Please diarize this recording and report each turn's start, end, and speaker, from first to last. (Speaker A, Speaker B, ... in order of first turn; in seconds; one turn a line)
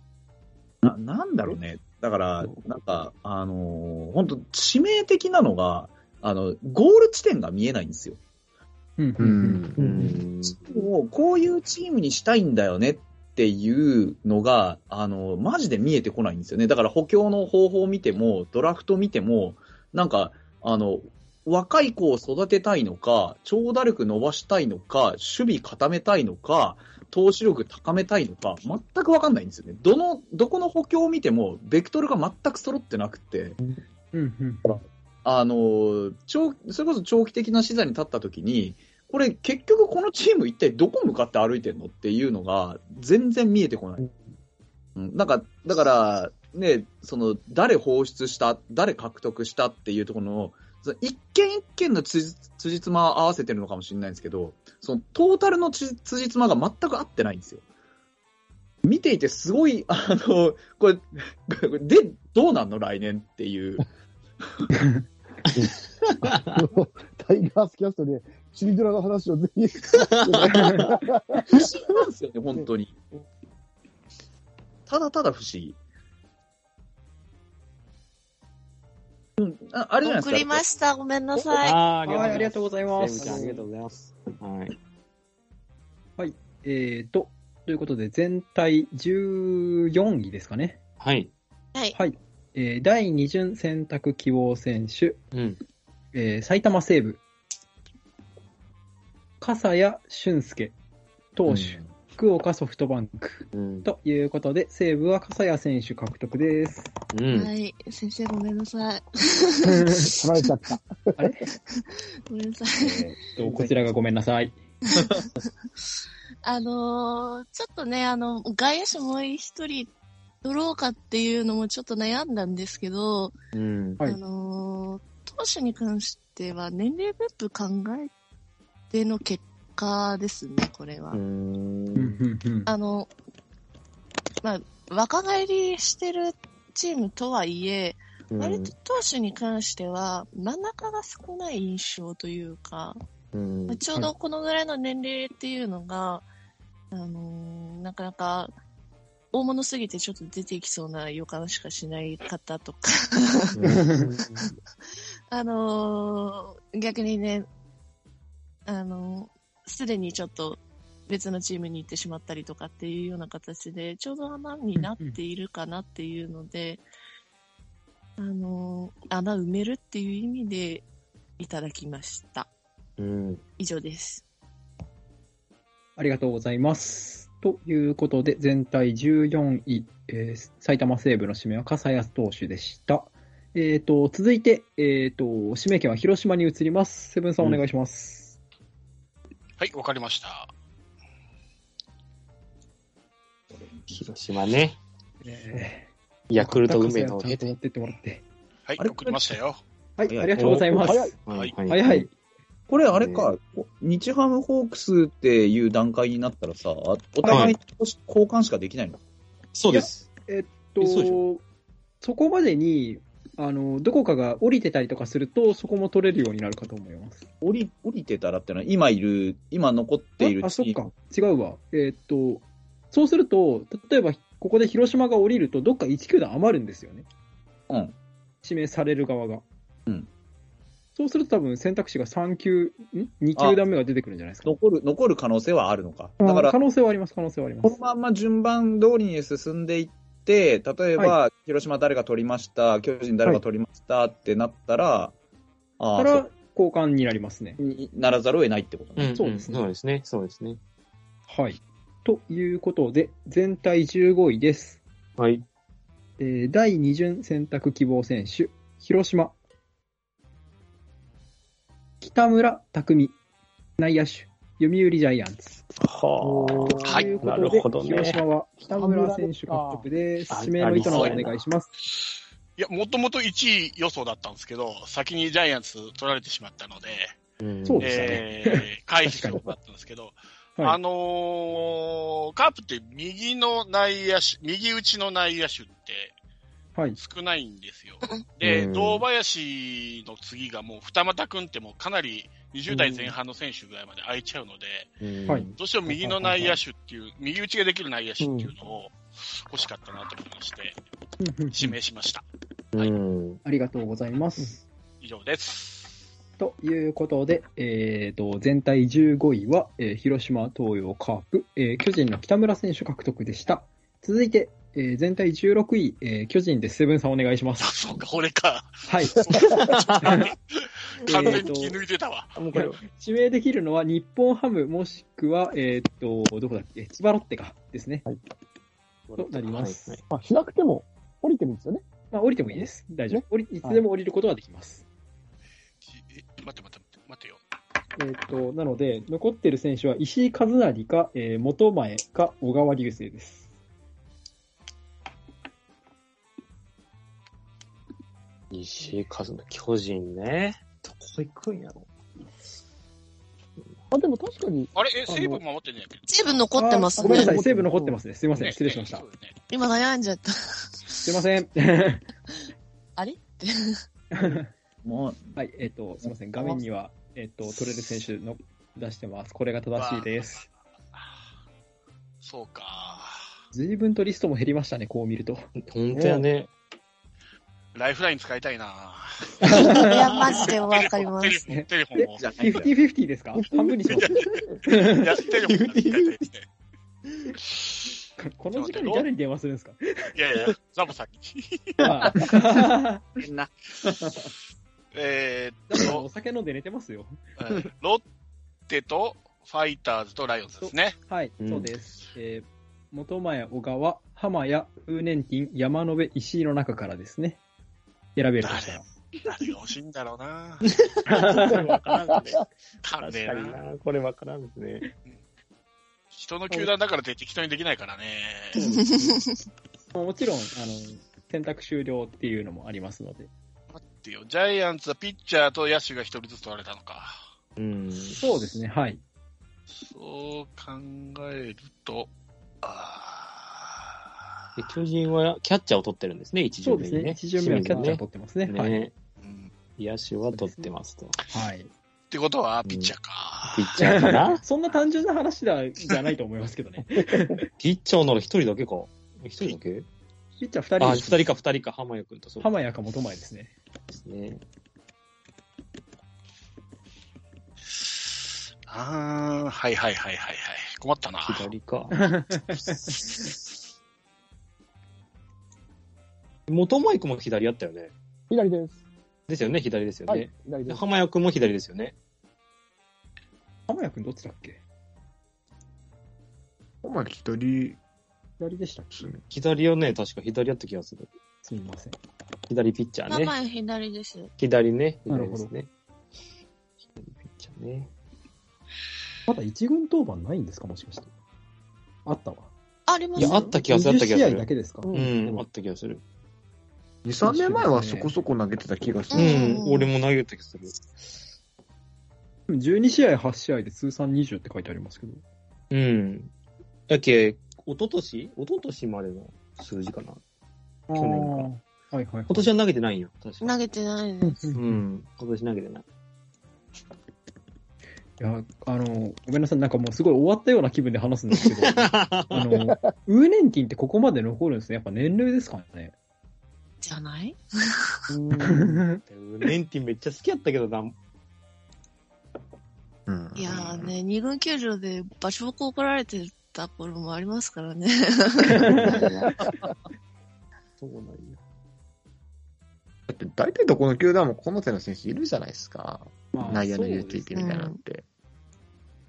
Speaker A: 0.8-8.2
Speaker B: 9.0-9.6
Speaker C: 9.2-9.8
Speaker D: 9.8-10.7
Speaker A: 10.6-33.6
Speaker B: 34.1-34.8
Speaker A: 35.2-44.0
Speaker A: 45.0-57.6
Speaker A: 58.8-63.9
Speaker B: 64.7-65.0
Speaker D: 65.5-66.6
Speaker E: 66.2-71.7
Speaker D: 69.9-70.9
Speaker A: 71.5-73.0
Speaker A: 74.9-75.8
Speaker A: 79.4-80.6
Speaker F: 80.0-81.8
Speaker D: 81.4-84.8
Speaker B: 82.0-83.7
Speaker E: 83.2-83.5
Speaker B: 86.2-90.8
Speaker D: 91.0-91.3
Speaker B: 91.9-95.2
Speaker D: 95.3-95.6
Speaker B: 96.1-97.2
Speaker B: 99.4-100.7
Speaker B: 101.3-106.9
Speaker D: 101.5-101.9
Speaker D: 103.5-103.9
Speaker D: 107.1-107.5
Speaker F: 107.3-110.1
Speaker B: 109.7-110.0
Speaker E: 110.2-111.2
Speaker B: 111.2-111.4
Speaker F: 111.7-113.1
Speaker B: 112.8-114.6
Speaker F: 116.4-119.9
Speaker F: 120.4-123.3
Speaker D: 123.5-124.0
Speaker F: 124.0-128.1
Speaker F: 128.9-131.2
Speaker D: 131.1-132.2
Speaker B: 131.9-132.7
Speaker F: 132.7-133.1
Speaker F: 134.4-143.0
Speaker D: 138.3-138.7
Speaker D: 143.3-143.8
Speaker F: 143.7-146.2
Speaker F: 146.9-148.5
Speaker F: 149.3-153.6
Speaker E: 153.9-154.5
Speaker F: 155.3-157.5
Speaker F: 158.7-166.8
Speaker B: 164.8-165.2
Speaker F: 168.2-170.8
Speaker F: 171.4-172.5
Speaker D: 173.0-173.4
Speaker F: 173.6-174.2
Speaker B: 176.0-188.4
Speaker G: 189.6-190.5
Speaker D: 193.9-194.8
Speaker B: 195.2-198.2
Speaker D: 196.3-197.5
Speaker G: 198.7-199.6
Speaker A: 198.8-199.4
Speaker B: 200.0-201.2
Speaker A: 200.1-200.5
Speaker D: 200.4-200.7
Speaker E: 200.6-201.2
Speaker D: 201.2-202.1
Speaker G: 201.3-201.5
Speaker B: 201.7-202.1
Speaker A: 202.7-209.0
Speaker D: 202.9-203.3
Speaker B: 207.2-207.5
Speaker D: 207.3-207.6
Speaker D: 209.5-210.1
Speaker B: 209.7-211.4
Speaker D: 210.8-211.2
Speaker B: 212.0-217.2
Speaker A: 217.4-220.8
Speaker B: 220.2-227.1
Speaker A: 227.7-227.9
Speaker B: 228.4-229.4
Speaker B: 230.9-234.6
Speaker A: 233.3-233.6
Speaker A: 234.4-236.6
Speaker B: 236.2-237.8
Speaker A: 237.6-245.1
Speaker A: 245.8-246.2
Speaker B: 245.9-247.6
Speaker A: 247.6-249.2
Speaker D: 249.0-250.6
Speaker B: 249.2-249.6
Speaker B: 251.3-254.8
Speaker D: 255.2-255.4
Speaker B: 256.2-259.3
Speaker B: 262.0-263.1
Speaker B: 263.8-265.6
Speaker D: 265.8-268.2
Speaker E: 266.2-267.6
Speaker G: 266.8-267.2
Speaker B: 266.8-271.7
Speaker E: 268.6-269.9
Speaker D: 270.3-271.4
Speaker G: 270.8-271.2
Speaker G: 271.9-277.2
Speaker D: 277.4-278.2
Speaker B: 277.6-279.4
Speaker G: 277.8-286.1
Speaker G: 287.0-294.9
Speaker D: 288.4-289.0
Speaker E: 292.7-293.1
Speaker D: 295.0-295.5
Speaker B: 295.3-296.6
Speaker G: 295.6-300.8
Speaker E: 298.2-298.5
Speaker B: 301.2-301.8
Speaker G: 301.5-302.2
Speaker D: 302.7-303.4
Speaker B: 303.4-304.6
Speaker G: 305.0-305.9
Speaker B: 306.4-317.7
Speaker G: 317.6-320.4
Speaker B: 318.9-319.2
Speaker D: 319.6-320.1
Speaker G: 321.0-322.4
Speaker B: 321.1-321.8
Speaker D: 321.1-321.4
Speaker D: 322.4-322.8
Speaker B: 322.5-328.1
Speaker D: 329.1-330.0
Speaker B: 329.2-330.0
Speaker E: 330.1-331.8
Speaker B: 332.1-334.8
Speaker E: 332.5-333.8
Speaker G: 335.8-337.4
Speaker B: 338.0-343.4
Speaker D: 348.5-351.9
Speaker E: 353.9-355.4
Speaker G: 354.7-356.0
Speaker F: 356.1-357.4
Speaker B: 356.6-359.0
Speaker E: 357.0-358.0
Speaker G: 358.3-359.3
Speaker F: 359.5-361.1
Speaker B: 361.0-362.0
Speaker F: 363.0-363.8
Speaker B: 364.1-364.5
Speaker A: 364.8-365.3
Speaker B: 365.4-370.4
Speaker G: 369.7-370.5
Speaker G: 372.2-373.1
Speaker B: 373.5-376.2
Speaker D: 375.6-376.5
Speaker G: 377.7-382.3
Speaker B: 379.4-379.9
Speaker D: 379.5-380.3
Speaker F: 379.6-381.4
Speaker B: 381.5-384.1
Speaker A: 382.2-382.7
Speaker G: 383.9-386.5
Speaker B: 384.6-385.0
Speaker D: 385.3-386.2
Speaker B: 388.2-390.1
Speaker G: 388.5-389.1
Speaker G: 390.1-392.3
Speaker B: 391.8-393.0
Speaker A: 393.2-394.2
Speaker G: 394.9-396.0
Speaker B: 395.7-397.2
Speaker G: 397.4-398.0
Speaker G: 398.7-401.0
Speaker B: 400.6-407.4
Speaker D: 401.4-401.7
Speaker B: 408.1-408.9
Speaker G: 408.4-410.7
Speaker D: 410.9-412.4
Speaker B: 411.1-411.6
Speaker G: 411.5-413.6
Speaker D: 413.0-414.9
Speaker G: 416.1-418.6
Speaker B: 418.5-419.2
Speaker F: 418.8-419.3
Speaker B: 419.9-423.3
Speaker G: 423.7-427.2
Speaker D: 427.6-428.2
Speaker B: 428.2-429.0
Speaker G: 429.7-432.1
Speaker G: 432.6-433.8
Speaker D: 434.6-438.9
Speaker B: 436.6-438.8
Speaker G: 439.2-439.5
Speaker D: 439.8-441.1
Speaker B: 440.3-440.7
Speaker B: 441.3-441.7
Speaker G: 442.1-443.9
Speaker D: 442.6-442.9
Speaker D: 443.5-444.4
Speaker B: 443.8-447.4
Speaker D: 447.6-449.9
Speaker B: 450.4-451.2
Speaker D: 450.8-452.5
Speaker B: 452.4-453.5
Speaker D: 453.9-454.4
Speaker G: 457.7-461.5
Speaker D: 461.2-462.0
Speaker B: 461.9-463.0
Speaker D: 466.5-467.9
Speaker E: 468.3-468.8
Speaker D: 469.3-471.9
Speaker E: 470.1-470.8
Speaker B: 473.7-474.6
Speaker C: 476.8-477.8
Speaker B: 478.4-478.9
Speaker C: 478.9-479.2
Speaker D: 479.3-481.1
Speaker B: 481.4-482.0
Speaker D: 482.5-483.3
Speaker F: 483.1-484.3
Speaker D: 484.4-485.7
Speaker B: 485.1-485.5
Speaker D: 486.9-487.9
Speaker B: 489.3-491.1
Speaker B: 492.1-492.5
Speaker F: 492.9-493.6
Speaker D: 493.2-496.0
Speaker B: 493.2-495.4
Speaker E: 494.8-495.1
Speaker C: 497.0-499.5
Speaker B: 497.2-498.1
Speaker F: 499.1-499.9
Speaker D: 499.1-500.9
Speaker B: 502.5-505.2
Speaker D: 505.7-506.3
Speaker D: 506.9-510.2
Speaker B: 510.9-512.5
Speaker D: 510.9-511.5
Speaker D: 512.3-513.6
Speaker F: 513.4-514.5
Speaker B: 514.2-514.8
Speaker D: 514.5-515.8
Speaker B: 518.2-525.9
Speaker D: 521.4-522.5
Speaker F: 526.8-528.1
Speaker E: 528.1-528.8
Speaker B: 528.4-529.0
Speaker D: 529.0-530.9
Speaker C: 533.1-533.9
Speaker F: 533.4-539.0
Speaker B: 538.5-539.0
Speaker E: 538.9-539.3
Speaker D: 540.8-541.4
Speaker C: 543.1-548.0
Speaker B: 546.3-547.5
Speaker F: 547.3-547.8